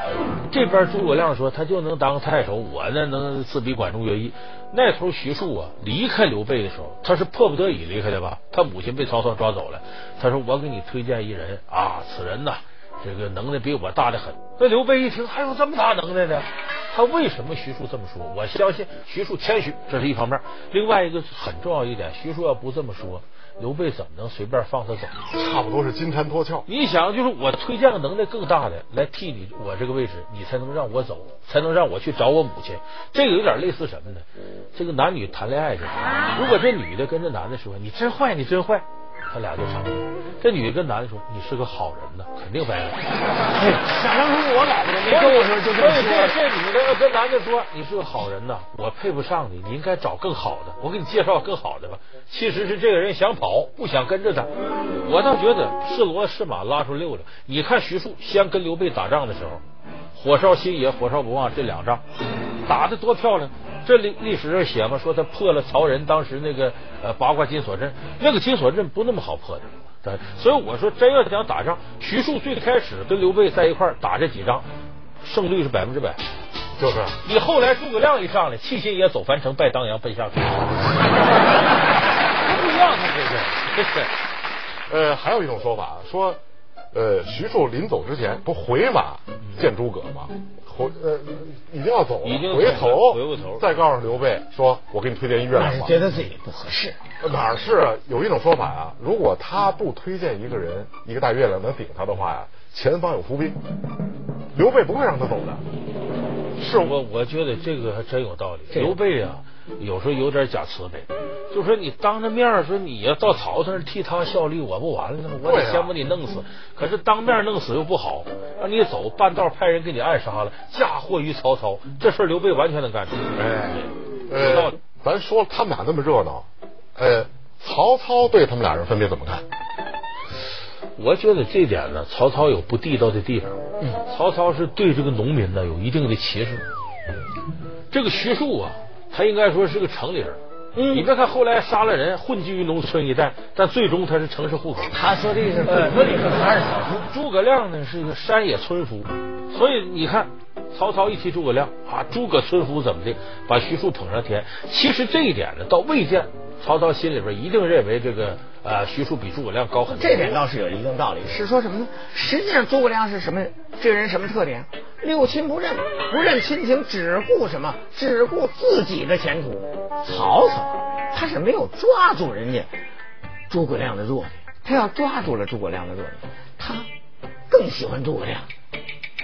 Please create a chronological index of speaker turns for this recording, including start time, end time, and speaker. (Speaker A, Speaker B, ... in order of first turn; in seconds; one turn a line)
Speaker A: 0.5-25.2
Speaker B: 25.3-26.7
Speaker A: 26.7-43.0
Speaker C: 43.5-46.4
Speaker A: 45.0-62.0
Speaker A: 62.7-74.7
Speaker A: 75.2-76.2
Speaker B: 76.8-77.2
Speaker A: 77.2-80.7
Speaker A: 82.4-84.1
Speaker B: 84.9-86.4
Speaker B: 86.9-96.0
Speaker A: 92.2-93.7
Speaker C: 95.5-97.0
Speaker B: 97.2-103.6
Speaker B: 104.5-105.6
Speaker A: 106.6-124.8
Speaker C: 108.7-109.0
Speaker B: 115.4-115.9
Speaker B: 123.3-129.4
Speaker A: 131.0-136.7
Speaker A: 137.9-140.4
Speaker C: 140.8-141.1
Speaker A: 140.9-145.0
Speaker C: 144.9-147.1
Speaker A: 145.7-160.4
Speaker C: 159.9-172.7
Speaker C: 173.5-176.9
Speaker C: 177.5-178.5